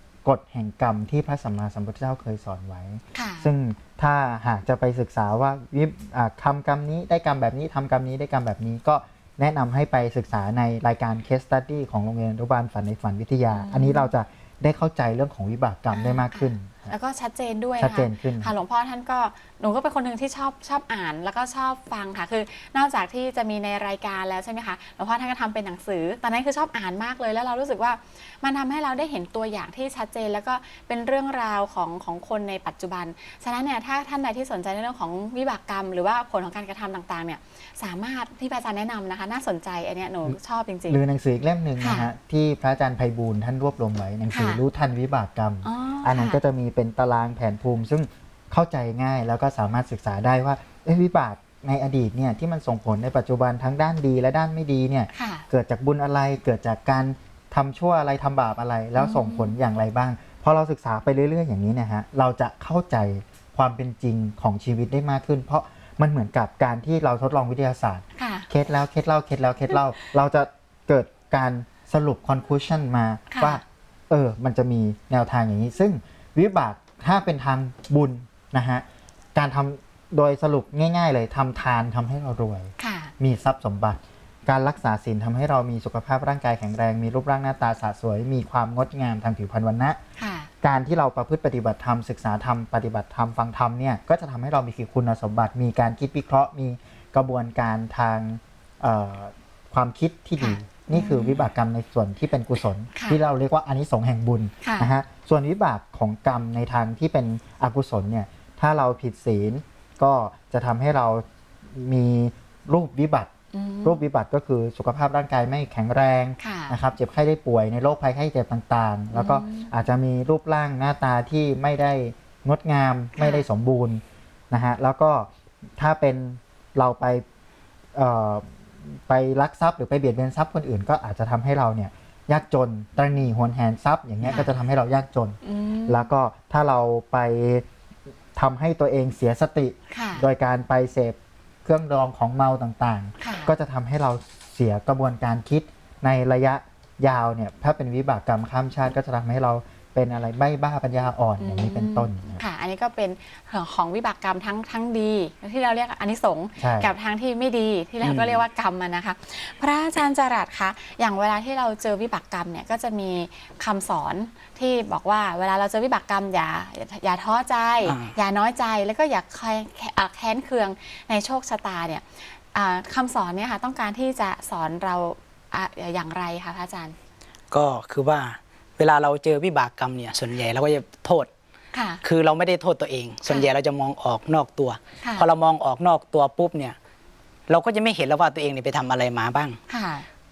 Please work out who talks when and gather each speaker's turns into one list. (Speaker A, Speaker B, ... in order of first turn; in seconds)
Speaker A: 0.2-17.0, 17.8-18.5, 40.9-78.8, 79.3-90.0, 90.6-113.3, 113.8-127.2, 127.9-137.7, 138.3-152.4, 156.6-156.9
Speaker B: 3.1-3.5, 13.5-14.1, 15.9-41.0, 41.8-42.1, 44.3-44.6, 45.6-46.4, 55.1-55.5, 59.0-59.5, 68.2-68.5, 73.3-73.6, 82.8-83.1, 90.2-90.5, 100.4-101.5, 103.0-103.2, 104.6-104.9, 113.5-114.0, 116.4-116.8, 119.1-119.7, 123.2-123.5, 135.4-136.1, 139.9-140.2, 143.2-143.5, 151.4-177.0, 181.7-182.0, 185.0-185.3, 189.7-190.1
Speaker C: 158.0-158.4, 167.8-168.2, 177.5-181.3, 182.0-186.8, 187.5-189.6